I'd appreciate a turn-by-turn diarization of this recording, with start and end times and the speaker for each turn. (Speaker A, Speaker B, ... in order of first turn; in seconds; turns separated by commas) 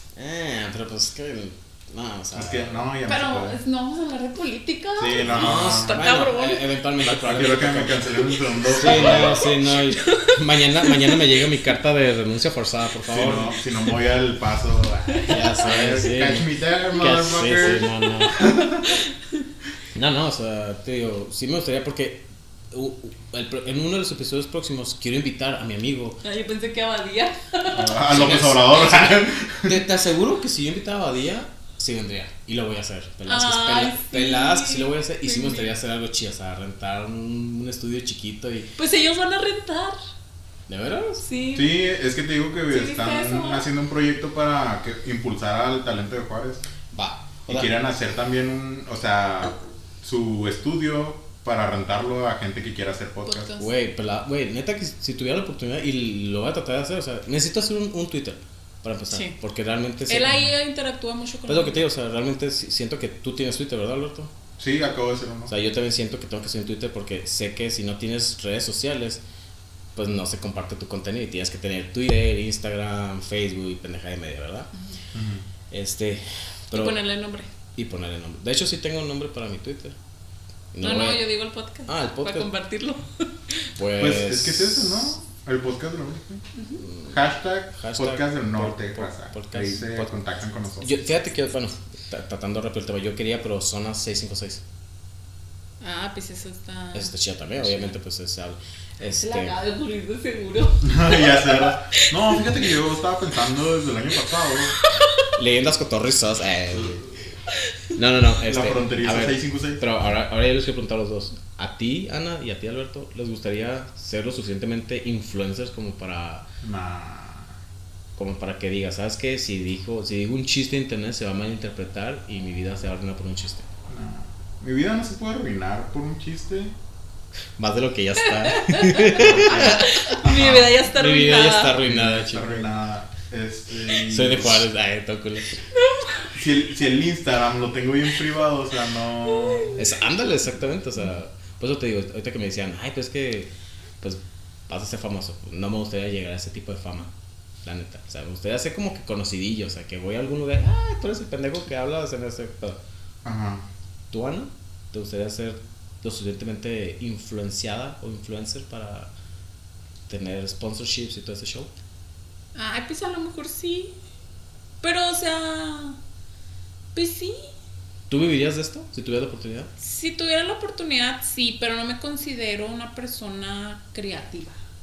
Speaker A: 0.2-2.9, Speaker B: 2.3-3.6, Speaker C: 3.0-6.7, Speaker B: 5.0-6.0, Speaker A: 5.2-13.6, Speaker B: 7.0-9.5, Speaker C: 8.9-11.4, Speaker B: 13.1-19.0, Speaker A: 15.2-18.5, Speaker C: 18.4-19.1, Speaker A: 19.9-26.2, Speaker C: 26.2-28.1, Speaker B: 27.7-29.8, Speaker A: 28.1-38.7, Speaker C: 33.3-35.7, Speaker C: 38.8-40.0, Speaker A: 40.7-41.2, Speaker C: 41.2-41.8, Speaker B: 41.5-46.6, Speaker C: 42.7-43.6, Speaker A: 46.9-47.7, Speaker B: 47.5-53.5, Speaker C: 53.3-53.7, Speaker A: 53.6-60.4, Speaker C: 60.1-61.8, Speaker A: 61.5-64.3, Speaker B: 64.6-65.5, Speaker A: 65.5-69.2, Speaker A: 70.0-74.7, Speaker B: 75.1-75.5, Speaker A: 75.7-77.0, Speaker C: 76.7-77.5, Speaker A: 77.8-80.0, Speaker A: 80.7-81.2, Speaker C: 80.8-83.7, Speaker A: 81.9-82.5, Speaker A: 83.8-85.1, Speaker B: 84.0-86.4, Speaker C: 86.5-86.8, Speaker A: 86.8-87.2, Speaker B: 87.1-91.0, Speaker A: 87.8-90.1, Speaker A: 90.8-94.6, Speaker C: 95.8-97.9, Speaker A: 96.9-99.5, Speaker C: 99.2-102.5, Speaker B: 100.8-104.8, Speaker C: 104.8-105.2, Speaker A: 105.4-107.1, Speaker A: 108.0-116.5, Speaker B: 108.5-109.8, Speaker B: 116.6-117.5, Speaker A: 118.2-123.7, Speaker B: 123.9-126.8, Speaker A: 127.6-132.7, Speaker C: 128.2-131.8, Speaker B: 129.2-130.7, Speaker B: 131.8-134.7, Speaker A: 134.0-135.6, Speaker C: 135.7-136.3, Speaker B: 136.3-139.8, Speaker C: 139.3-139.8, Speaker A: 139.8-143.5, Speaker A: 144.0-147.1, Speaker A: 147.6-152.8, Speaker B: 153.2-153.6, Speaker A: 154.1-159.1, Speaker A: 160.1-161.7, Speaker C: 162.6-163.9, Speaker C: 164.8-166.0, Speaker C: 166.9-167.5, Speaker A: 168.1-169.7, Speaker C: 169.8-174.6